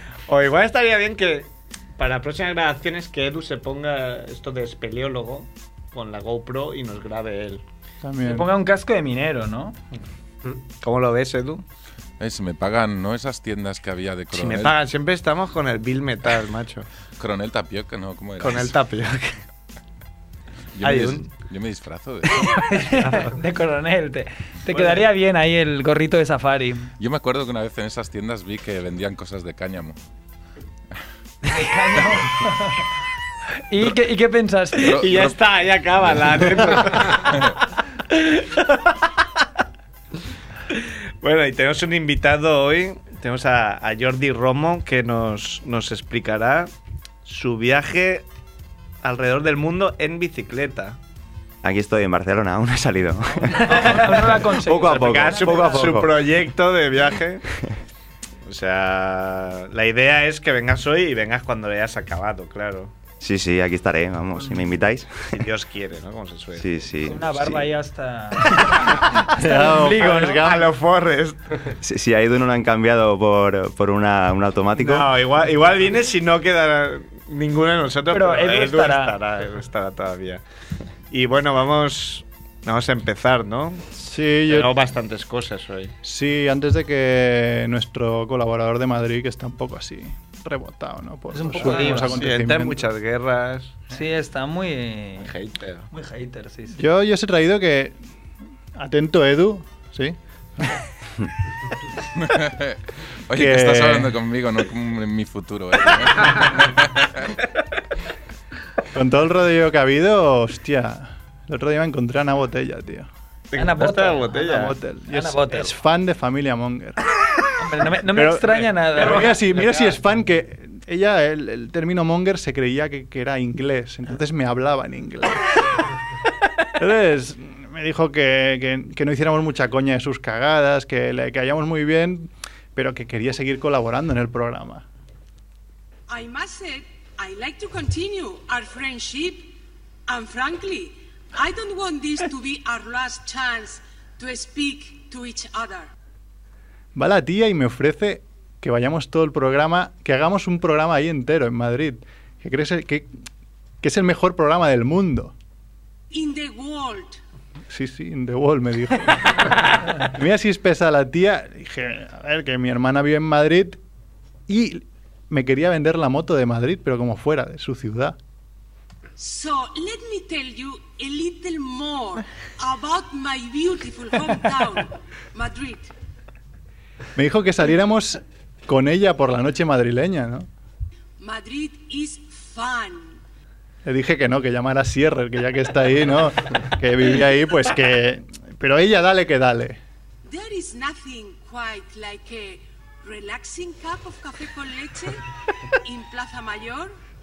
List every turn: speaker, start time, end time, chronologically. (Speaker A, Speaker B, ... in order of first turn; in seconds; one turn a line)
Speaker A: 0.3-7.6
Speaker B: 8.0-8.5
Speaker C: 8.2-9.8
Speaker A: 10.8-11.6
Speaker D: 12.2-14.8
Speaker A: 14.3-16.9
Speaker D: 17.2-18.8
Speaker A: 18.4-19.4
Speaker D: 20.7-22.5
Speaker A: 20.8-21.3
Speaker C: 22.6-26.9
Speaker A: 22.8-23.3
Speaker A: 24.7-25.0
Speaker D: 27.0-30.0
Speaker C: 31.4-32.8
Speaker C: 33.7-35.0
Speaker D: 34.7-37.5
Speaker A: 35.0-37.5
Speaker A: 38.1-39.0
Speaker A: 40.7-46.7
Speaker A: 47.2-48.2
Speaker A: 49.0-51.0
Speaker E: 51.6-54.1
Speaker A: 53.5-57.4
Speaker C: 53.5-55.9
Speaker E: 54.8-56.2
Speaker A: 58.4-62.9
Speaker E: 63.2-65.4
Speaker C: 64.4-64.6
Speaker A: 65.2-67.1
Speaker E: 66.5-67.7
Speaker C: 67.0-70.6
Speaker B: 69.3-70.7
Speaker A: 70.0-71.6
Speaker E: 71.7-75.1
Speaker A: 74.8-80.4
Speaker C: 78.1-79.1
Speaker A: 81.1-83.9
Speaker B: 84.0-84.7
Speaker A: 84.5-85.9
Speaker B: 86.0-92.8
Speaker C: 91.3-92.2
Speaker A: 91.5-93.8
Speaker C: 93.9-95.3
Speaker A: 95.2-95.9
Speaker C: 95.9-96.8
Speaker B: 96.7-98.0
Speaker B: 98.8-100.8
Speaker D: 102.2-107.3
Speaker B: 103.3-104.2
Speaker B: 108.9-113.1
Speaker A: 113.5-114.8
Speaker C: 113.5-115.8
Speaker B: 114.4-117.0
Speaker C: 117.6-119.4
Speaker B: 118.1-125.7
Speaker B: 126.8-134.8
Speaker F: 136.1-145.9
Speaker B: 146.9-153.1
Speaker B: 153.8-155.3
Speaker F: 156.1-157.2
Speaker B: 157.7-163.8
Speaker B: 164.5-168.2
Speaker F: 169.2-175.9
Speaker B: 177.2-180.5
Speaker F: 181.2-183.2
Speaker B: 183.8-189.8
Speaker F: 190.2-195.2
Speaker F: 195.8-196.9